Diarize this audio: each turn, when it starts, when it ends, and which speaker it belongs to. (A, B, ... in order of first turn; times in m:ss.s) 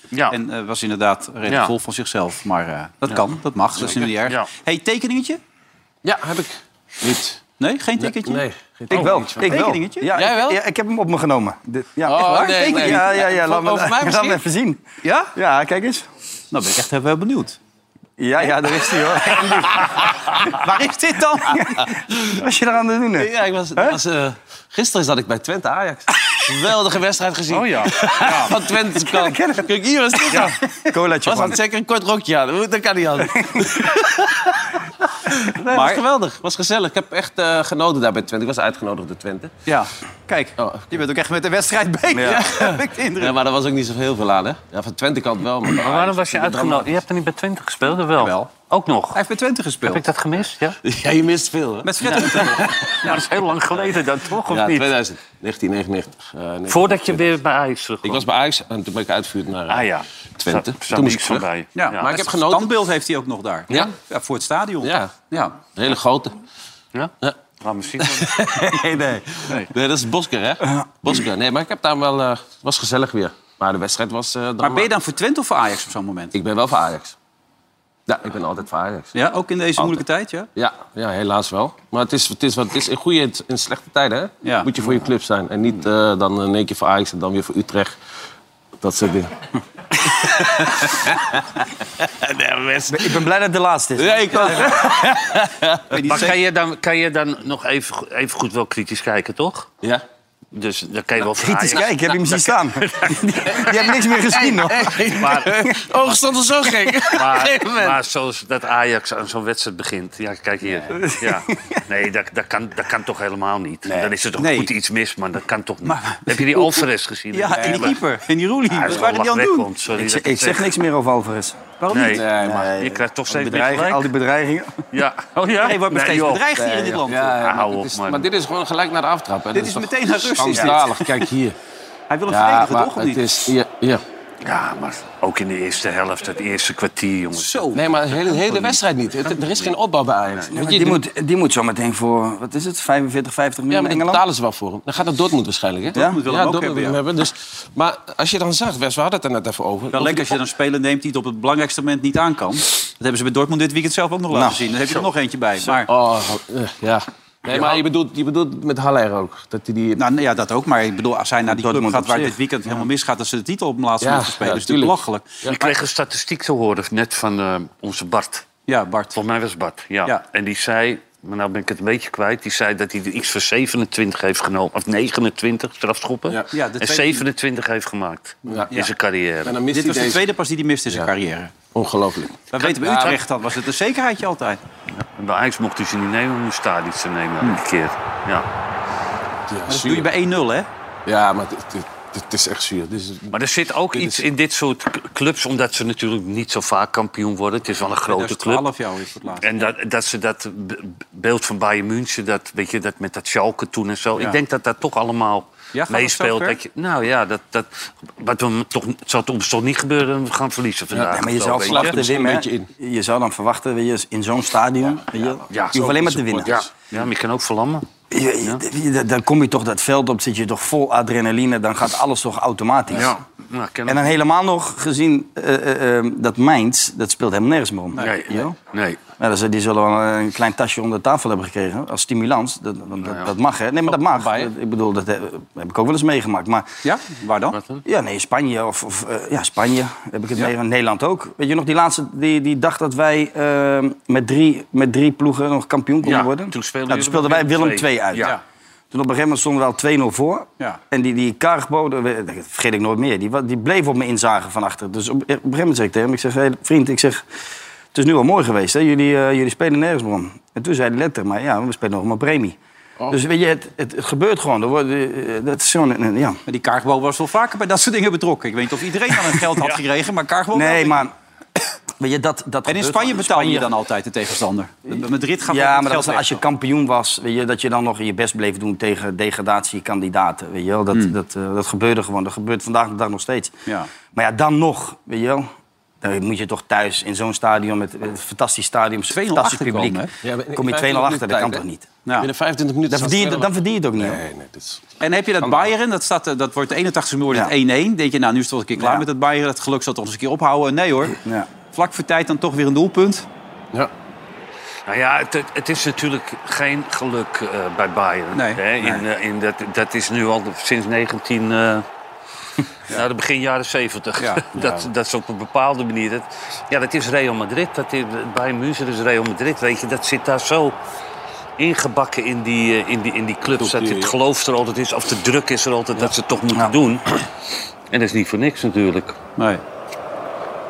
0:00.1-0:00.4 A
0:00.3-0:05.4 B
0:01.5-0:01.7 A
0:04.2-0:04.5 A
0:06.0-0:07.4 C
0:07.6-0:10.1 B
0:08.0-0:10.6 C
0:08.9-0:14.8 D
0:12.0-0:14.4 C
0:12.1-0:13.2 B
0:15.0-0:15.3 B
0:15.3-0:16.1 D
0:16.5-0:17.6 B
0:18.2-0:20.7 D
0:20.5-0:21.6 B
0:21.4-0:24.0 D
0:23.2-0:30.6 C
0:27.5-0:28.2 A
0:28.2-0:28.6 B
0:29.1-0:29.6 D
0:30.9-0:31.6 D
0:31.2-0:34.7 C
0:35.3-0:39.5 C
0:35.7-0:36.0 B
0:39.6-0:43.4 B
0:40.6-0:41.0 C
0:42.1-0:42.4 D
0:42.2-0:46.8 C
0:45.8-0:49.2 A
0:48.2-0:48.5 B
0:49.1-0:50.0 B
0:49.8-0:50.8 A
0:50.8-0:52.8 C
0:51.8-0:53.2 B
0:52.6-0:54.9 A
0:54.5-0:57.3 C
0:56.7-0:58.2 A
0:58.0-0:59.9 C
0:59.7-1:02.1 A
1:00.4-1:01.5 C
1:01.8-1:05.6 B
1:02.0-1:02.7 C
1:04.8-1:06.3 C
1:06.9-1:08.3 A
1:08.0-1:14.9 C
1:14.6-1:16.4 B
1:16.3-1:17.1 C
1:18.1-1:19.1 C
1:19.1-1:20.5 B
1:20.6-1:27.9 C
1:24.4-1:24.7 B
1:28.8-1:29.3 C
1:30.2-1:31.4 C
1:32.0-1:33.2 C
1:32.9-1:35.1 D
1:34.0-1:36.0 C
1:35.9-1:36.4 B
1:36.0-1:39.7 A
1:40.5-1:42.4 A
1:41.4-1:45.2 D
1:43.5-1:48.0 C
1:45.1-1:45.5 A
1:47.1-1:58.0 A
1:50.9-1:51.8 D
1:54.4-1:54.7 B
1:55.8-1:59.7 B
1:57.6-1:57.8 C
1:58.7-2:00.7 A
1:59.9-2:01.7 D
2:01.8-2:02.2 B
2:01.9-2:04.1 A
2:02.1-2:02.6 C
2:02.3-2:04.8 D
2:04.9-2:06.5 A
2:05.6-2:07.3 B
2:06.6-2:07.0 D
2:07.0-2:11.6 C
2:07.1-2:08.2 A
2:09.5-2:11.2 B
2:12.1-2:13.5 B
2:12.3-2:14.0 C
2:14.4-2:17.7 A
2:17.3-2:17.8 B
2:17.7-2:21.0 C
2:20.5-2:24.2 D
2:23.7-2:30.4 C
2:25.9-2:27.0 B
2:29.9-2:35.9 B
2:34.3-2:34.6 D
2:35.6-2:40.0 C
2:37.5-2:37.8 B
2:40.0-2:45.6 B
2:41.4-2:42.4 D
2:44.0-2:45.6 C
2:45.4-2:48.4 A
2:48.7-2:49.2 B
2:49.1-2:59.6 A
2:56.5-2:57.2 B
2:59.4-3:00.3 C
2:59.7-3:01.5 B
3:01.7-3:03.2 C
3:02.5-3:04.6 B
3:05.0-3:08.5 A
3:09.5-3:10.1 C
3:09.7-3:10.7 B
3:11.0-3:13.3 C
3:13.3-3:18.6 A
3:13.9-3:14.2 C
3:18.1-3:19.5 B
3:19.4-3:32.0 A
3:25.7-3:26.6 B
3:30.9-3:32.7 C
3:31.1-3:36.7 D
3:35.5-3:37.8 A
3:35.8-3:36.5 C
3:38.1-3:43.2 D
3:42.9-3:44.1 A
3:43.9-3:48.5 D
3:48.0-3:49.0 A
3:49.2-3:56.7 D
3:53.8-3:54.5 C
3:56.8-3:57.6 B
3:57.5-3:57.8 A
3:57.8-4:08.3 D
4:06.0-4:08.3 A
4:08.9-4:17.2 D
4:17.9-4:22.6 D
4:23.1-4:26.4 D
4:26.5-4:31.1 B
4:30.5-4:31.1 D
4:32.0-4:33.7 D
4:32.6-4:36.4 B
4:35.5-4:43.6 D
4:44.1-4:45.5 D
4:46.0-4:50.0 D
4:49.1-4:50.1 B
4:50.2-4:51.6 C
4:50.5-4:51.8 D
4:52.2-4:54.8 C
4:52.9-4:54.2 D
4:55.0-5:01.2 B
4:55.4-4:55.7 C
4:58.8-4:59.0 D
5:01.7-5:03.2 B
5:04.9-5:11.8 A
5:08.3-5:08.6 B
5:12.9-5:20.8 A
5:14.2-5:14.9 B
5:21.6-5:27.2 A
5:23.6-5:24.1 C
5:27.9-5:29.2 A
5:29.4-5:29.6 B